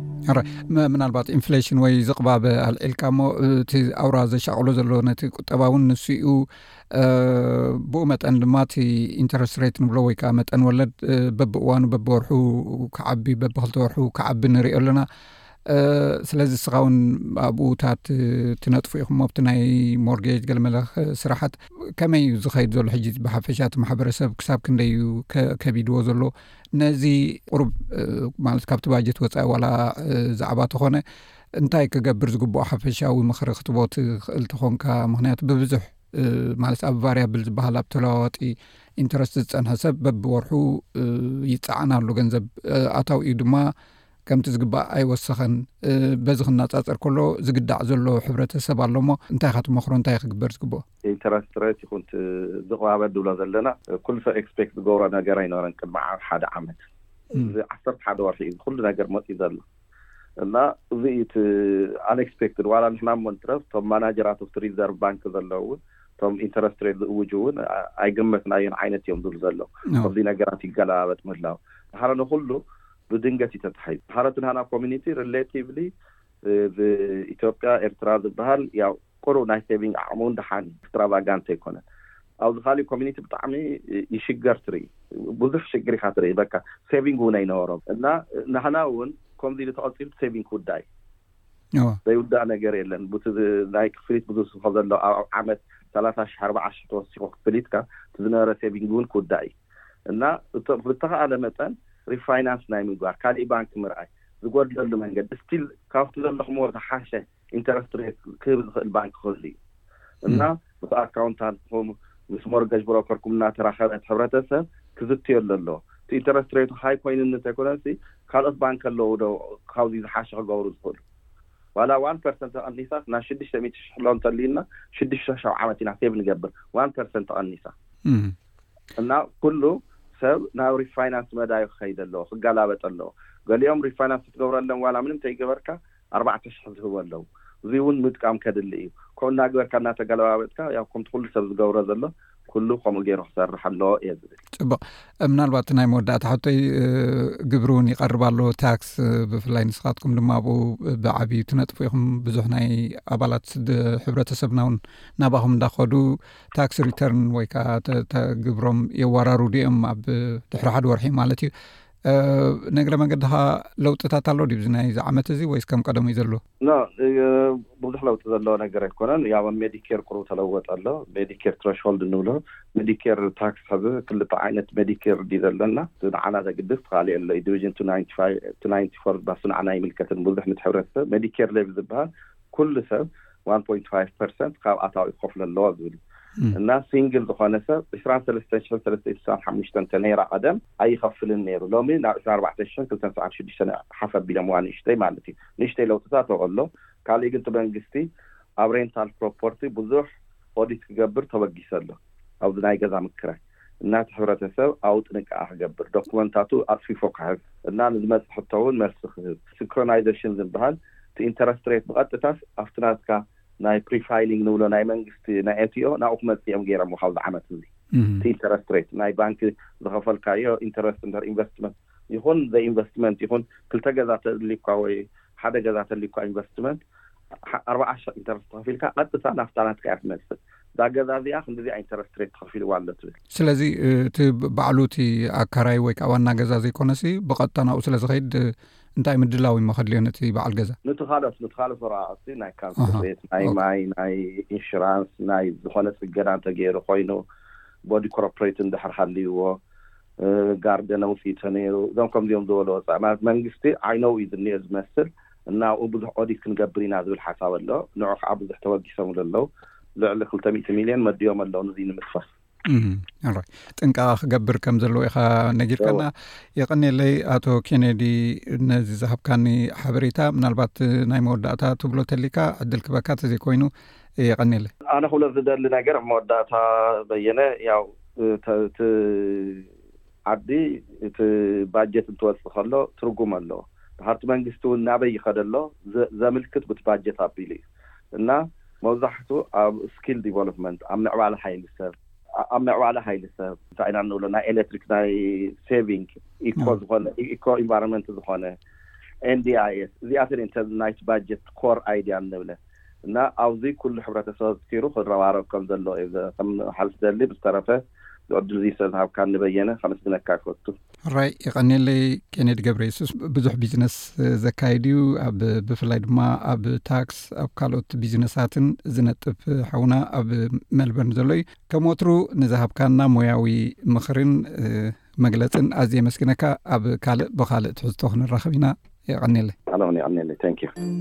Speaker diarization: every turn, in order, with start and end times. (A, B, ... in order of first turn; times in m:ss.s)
0:00.3-0:15.0 A
0:15.7-0:31.0 A
0:31.6-0:43.7 A
0:44.3-0:50.8 A
0:51.0-0:56.8 B
0:57.4-0:59.6 B
1:00.4-1:15.9 B
1:16.5-1:21.8 B
1:22.4-1:30.9 B
1:32.1-1:39.5 B
1:40.1-1:49.6 B
1:50.2-2:01.0 B
2:01.8-2:07.7 B
2:08.1-2:08.3 A
2:09.0-2:24.4 B
2:24.6-2:41.5 A
2:42.1-2:46.4 A
2:46.6-3:06.0 B
3:06.5-3:18.1 B
3:18.6-3:37.7 B
3:37.9-3:38.2 A
3:38.2-3:46.8 B
3:47.5-3:53.2 B
3:53.3-4:00.8 A
4:00.8-4:07.2 B
4:02.8-4:03.6 A
4:07.9-4:09.6 B
4:10.2-4:22.3 B
4:22.7-4:33.7 A
4:25.8-4:26.1 B
4:34.2-4:34.7 A
4:34.9-4:39.7 B
4:40.3-4:58.6 B
4:59.2-5:10.8 B
5:11.1-5:29.6 A
5:29.7-5:30.7 B